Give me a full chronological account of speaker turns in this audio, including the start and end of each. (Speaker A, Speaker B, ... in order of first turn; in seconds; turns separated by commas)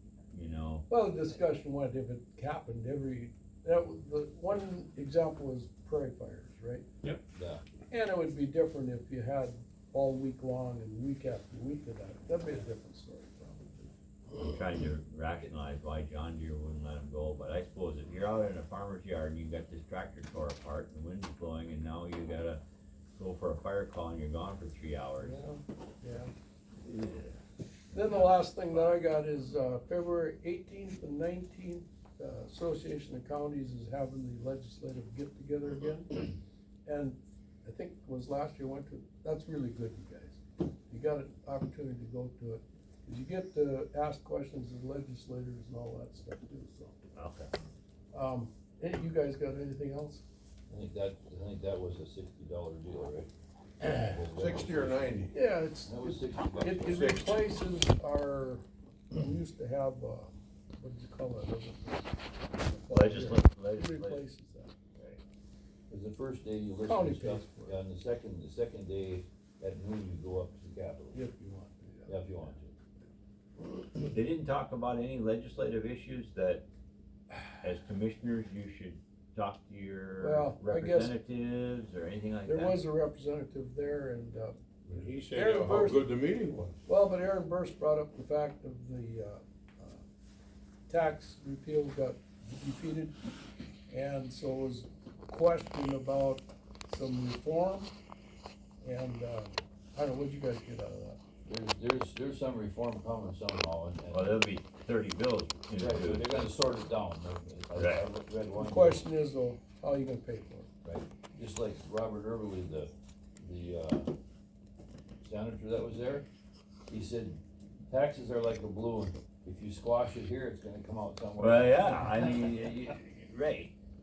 Speaker A: 0.3-0.9, Speaker B: 0.9-6.9, Speaker C: 7.3-7.6, Speaker B: 7.9-13.9, Speaker A: 14.3-22.6, Speaker A: 23.1-25.4, Speaker B: 25.2-26.3, Speaker A: 26.8-27.4, Speaker B: 27.9-36.3, Speaker A: 27.9-29.0, Speaker B: 36.9-47.0, Speaker A: 47.1-47.5, Speaker B: 48.1-50.2, Speaker C: 50.7-53.3, Speaker C: 53.8-55.1, Speaker D: 54.3-55.3, Speaker B: 55.3-64.7, Speaker C: 55.9-57.1, Speaker D: 56.9-57.2, Speaker A: 62.9-64.2, Speaker C: 65.9-71.2, Speaker B: 66.8-67.8, Speaker B: 71.1-72.5, Speaker C: 72.1-72.7, Speaker A: 74.0-76.7, Speaker A: 77.6-82.8, Speaker B: 80.2-81.2, Speaker B: 82.5-84.6, Speaker D: 84.9-86.8, Speaker B: 85.3-86.1, Speaker B: 86.9-90.0, Speaker B: 90.9-93.2, Speaker B: 93.9-97.9, Speaker B: 98.8-101.2, Speaker C: 101.5-104.4, Speaker A: 104.1-106.5, Speaker C: 105.7-109.0, Speaker A: 107.8-108.1, Speaker B: 108.6-110.7, Speaker C: 110.8-114.1, Speaker C: 115.2-116.3, Speaker C: 116.9-122.8, Speaker A: 121.4-123.8